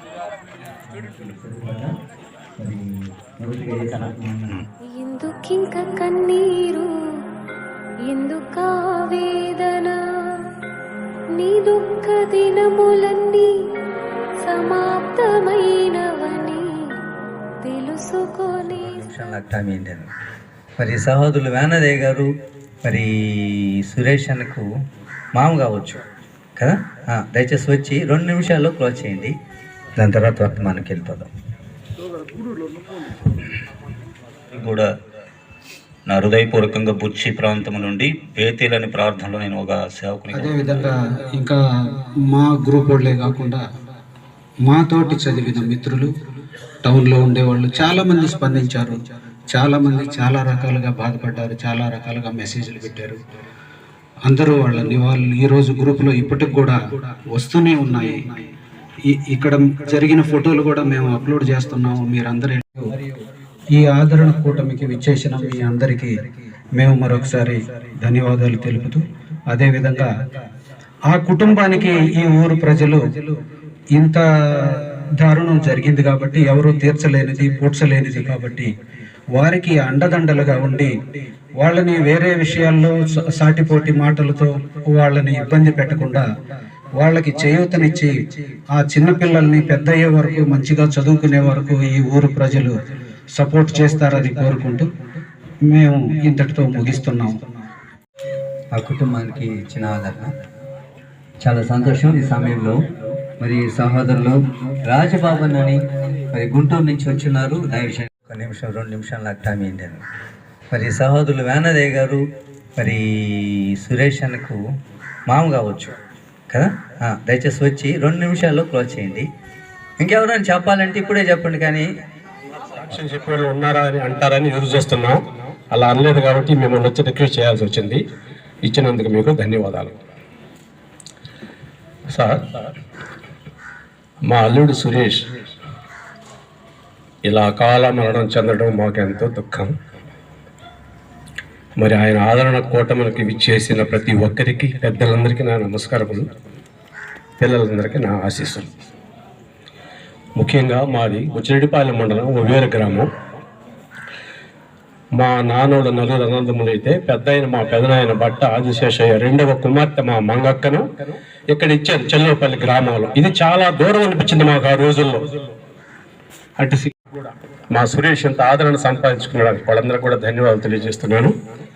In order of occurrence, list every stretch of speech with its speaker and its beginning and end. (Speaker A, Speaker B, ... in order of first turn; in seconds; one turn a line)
Speaker A: 0.8-1.9
Speaker A: 2.6-4.6
Speaker B: 4.9-6.9
Speaker B: 8.1-10.0
Speaker B: 11.4-13.5
Speaker B: 14.4-16.9
Speaker B: 17.6-19.1
Speaker A: 18.6-20.1
Speaker A: 20.8-22.3
Speaker A: 22.8-24.7
Speaker A: 25.3-26.0
Speaker A: 26.6-29.3
Speaker A: 30.0-31.3
Speaker C: 34.5-34.9
Speaker C: 36.1-40.9
Speaker D: 40.3-41.6
Speaker D: 42.3-43.6
Speaker D: 44.6-46.1
Speaker D: 46.8-53.2
Speaker D: 54.2-56.8
Speaker D: 57.3-58.3
Speaker D: 59.1-63.0
Speaker D: 63.7-66.2
Speaker D: 66.8-70.1
Speaker D: 71.1-73.4
Speaker D: 73.9-78.7
Speaker D: 79.3-81.0
Speaker D: 81.6-86.3
Speaker D: 87.0-88.2
Speaker D: 88.7-92.7
Speaker D: 93.3-94.9
Speaker D: 95.6-97.4
Speaker A: 98.7-100.3
Speaker A: 101.4-110.0
Speaker A: 110.7-112.2
Speaker A: 112.8-114.6
Speaker A: 115.3-115.9
Speaker A: 116.5-119.3
Speaker A: 120.0-121.9
Speaker E: 122.8-125.2
Speaker E: 125.7-128.0
Speaker E: 128.6-129.9
Speaker E: 132.1-132.4
Speaker E: 134.3-135.3
Speaker E: 137.2-139.7
Speaker E: 141.8-146.3
Speaker E: 147.4-148.7
Speaker E: 150.4-153.1
Speaker E: 155.2-160.8
Speaker E: 161.5-165.3
Speaker E: 166.6-171.3